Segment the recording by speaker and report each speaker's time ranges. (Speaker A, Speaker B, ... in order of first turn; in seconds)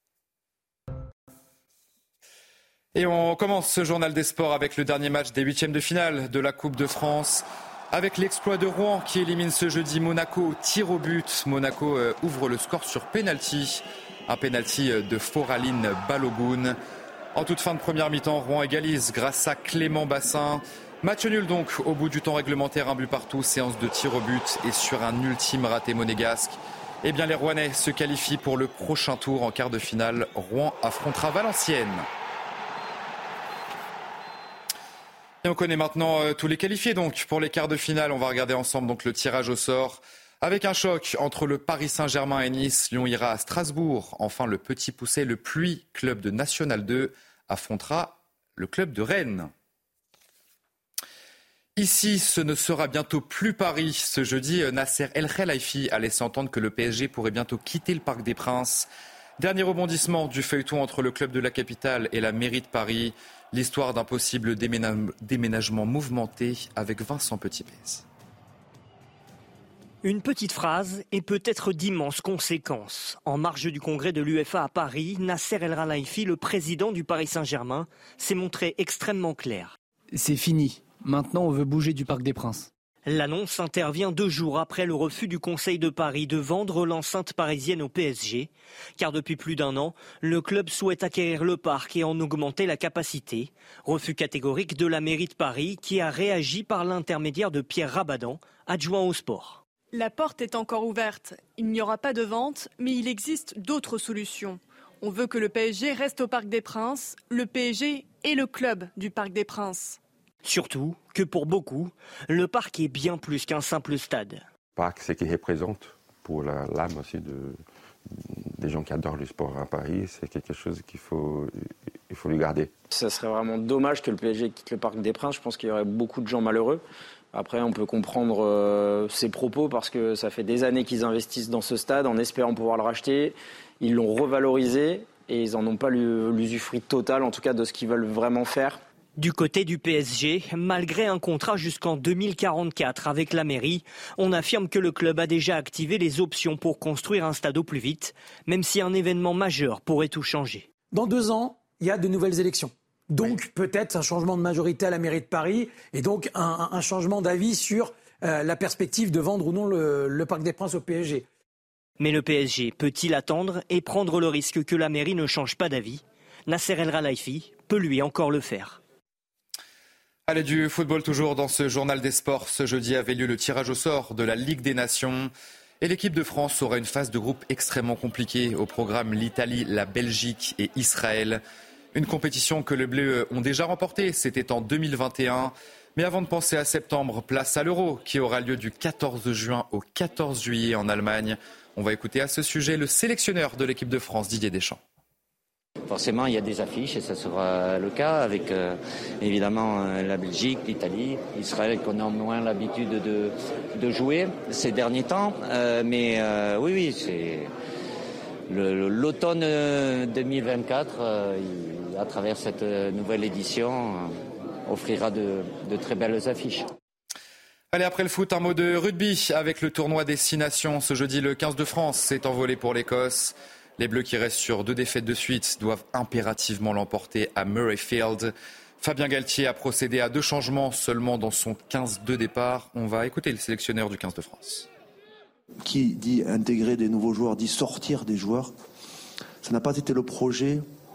Speaker A: 2.9-16.8, 17.3-32.1, 35.4-49.5, 51.8-68.0, 170.3-181.4, 181.9-194.8, 217.7-234.7
Speaker B: 70.0-79.7, 83.0-99.6, 110.4-114.4, 139.2-150.7, 162.0-168.8
Speaker C: 80.2-82.4
Speaker D: 99.9-110.0
Speaker E: 114.8-117.6, 118.6-121.5, 122.1-122.7
Speaker F: 122.9-126.8, 127.3-138.8
Speaker G: 150.9-161.2
Speaker H: 195.8-207.5, 208.4-216.7
Speaker I: 235.6-238.5, 239.4-240.6